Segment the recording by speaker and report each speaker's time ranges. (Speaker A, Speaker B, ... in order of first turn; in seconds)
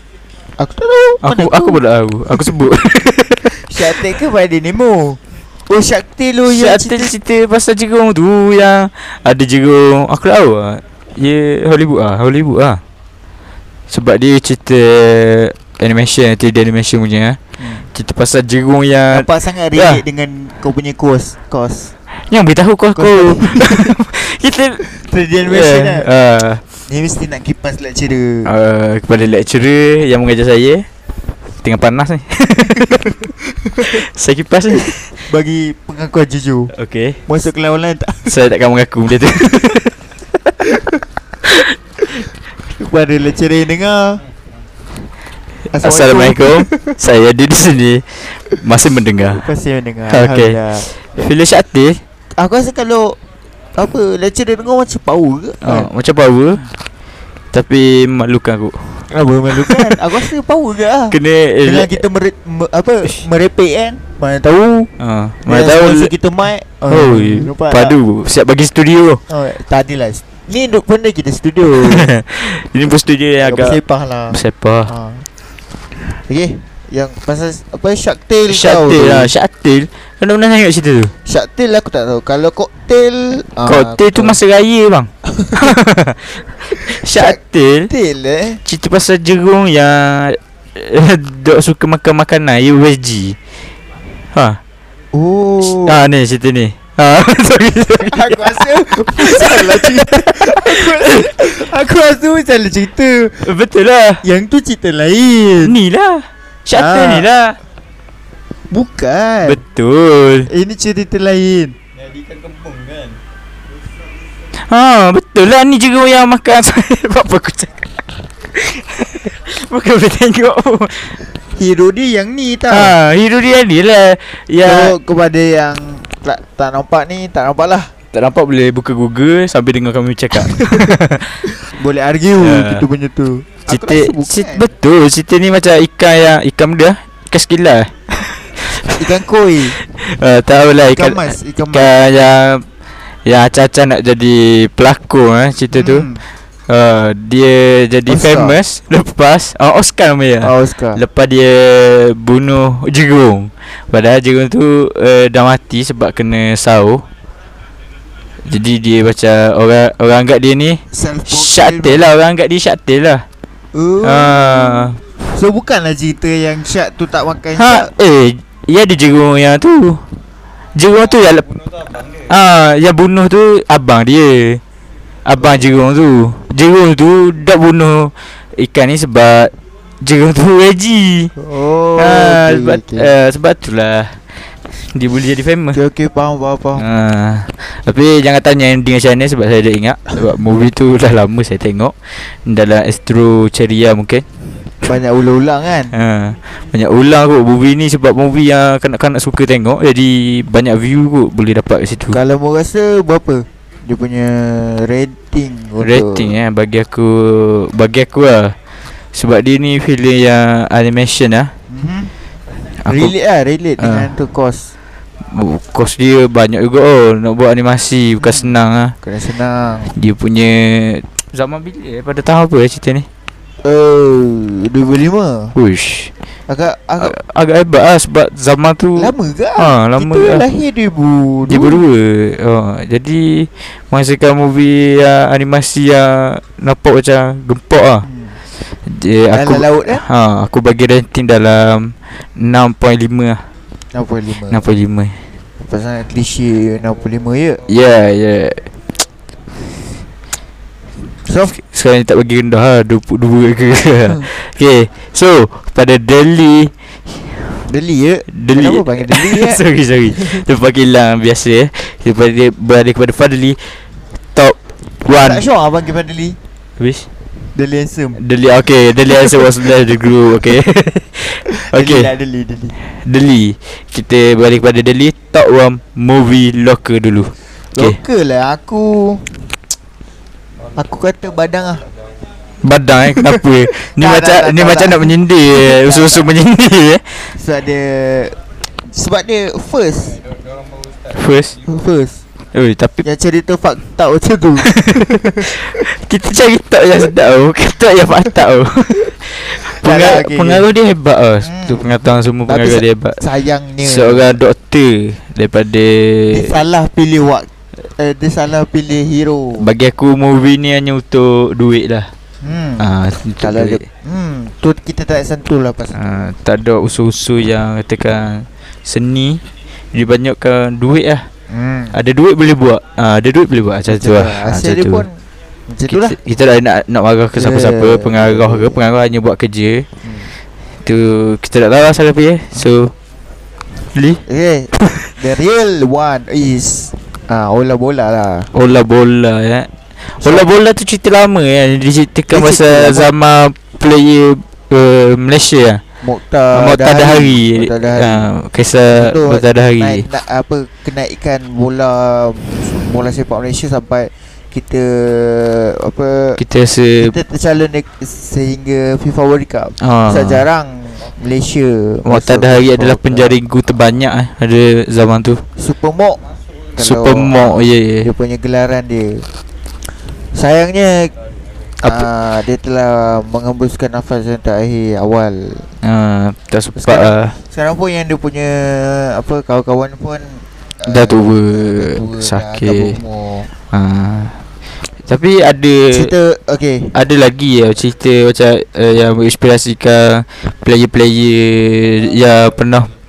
Speaker A: 0.6-1.8, 3.5-7.1, 17.6-17.9, 19.1-21.9, 22.9-23.9, 24.8-26.1, 26.9-28.5, 32.8-34.0, 35.2-36.7, 37.2-38.4, 40.6-40.9, 42.7-44.2, 45.7-47.0, 49.2-50.9, 52.3-53.2, 53.8-55.9, 59.1-64.9, 65.5-68.0, 69.3-72.1, 73.4-75.2, 76.3-79.3, 81.2-84.4, 85.3-85.7, 86.8-88.6, 95.1-96.0, 98.1-103.5, 104.2-105.8, 106.7-107.3, 108.7-109.6, 110.5-111.8, 121.5-122.9, 124.6-127.9, 130.4-130.9, 131.5-134.6, 139.0-139.8, 140.9-141.9, 145.7-146.2, 148.1-148.6, 150.4-151.0, 160.9-162.1, 163.7-167.9, 181.4-183.1, 185.7-186.8, 194.8-195.9, 202.1-206.3, 211.7-212.1, 212.9-214.7, 218.2-218.5, 219.0-219.9, 223.6-225.5, 226.5-227.1, 229.0-231.8, 238.0-238.4, 239.3-240.0, 243.9-244.6, 245.6-247.6, 251.2-251.5, 257.6-260.4, 265.1-266.4, 267.5-268.2, 269.1-269.7, 271.5-272.8, 277.7-279.5, 280.7-281.8, 283.2-286.3, 287.3-290.2, 291.6-292.2, 293.0-295.5, 299.6-300.7, 301.4-304.3, 306.3-309.6, 312.4-316.0, 321.5-321.9, 323.9-326.2, 327.3-328.8, 330.0-330.3, 334.2-338.5, 340.2-340.5, 342.3-343.1, 346.0-348.3, 348.9-356.4, 357.0-363.4, 365.6-366.2, 366.8-369.3, 370.3-371.1, 371.8-375.7, 376.8-383.5, 385.9-387.0
Speaker B: 1.2-3.7, 6.5-12.8, 13.9-17.4, 17.9-20.0, 22.2-24.8, 25.4-26.6, 28.4-30.9, 31.6-33.2, 33.8-35.2, 36.7-37.2, 38.3-39.9, 45.8-49.5, 50.1-52.0, 55.6-56.7, 57.5-59.1, 59.6-60.0, 61.1-62.0, 65.0-66.1, 66.9-69.2, 71.8-73.8, 74.3-74.9, 78.5-81.1, 83.6-87.9, 88.6-93.4, 94.3-94.6, 95.6-101.5, 103.4-104.2, 105.6-107.6, 109.4-110.5, 114.5-121.2, 122.7-124.9, 128.1-131.5, 132.4-132.8, 133.7-139.0, 139.8-142.6, 143.2-146.1, 146.7-157.1, 158.4-163.2, 164.0-165.0, 167.6-170.1, 170.7-174.6, 175.2-181.3, 181.9-185.8, 186.8-194.2, 195.9-202.2, 205.8-208.6, 209.1-211.5, 212.8-213.1, 213.8-214.1, 215.3-218.9, 219.9-223.1, 225.5-226.1, 227.0-230.4, 231.5-238.1, 238.6-243.5, 244.5-245.2, 247.7-248.7, 251.5-257.6, 258.3-263.8, 264.3-265.4, 266.8-267.1, 268.1-272.1, 272.8-278.0, 282.6-287.3, 291.1-291.6, 292.5-293.0, 294.6-303.2, 303.8-306.5, 309.6-312.1, 312.8-313.8, 315.9-319.4, 319.9-321.3, 321.9-325.1, 325.9-329.9, 330.8-332.9, 333.9-334.2, 338.5-345.8, 346.5-350.1, 356.4-357.1, 359.8-360.4, 362.0-365.4, 366.8-368.1, 375.8-377.4, 380.8-383.0, 383.7-384.4, 385.0-386.1, 386.9-392.9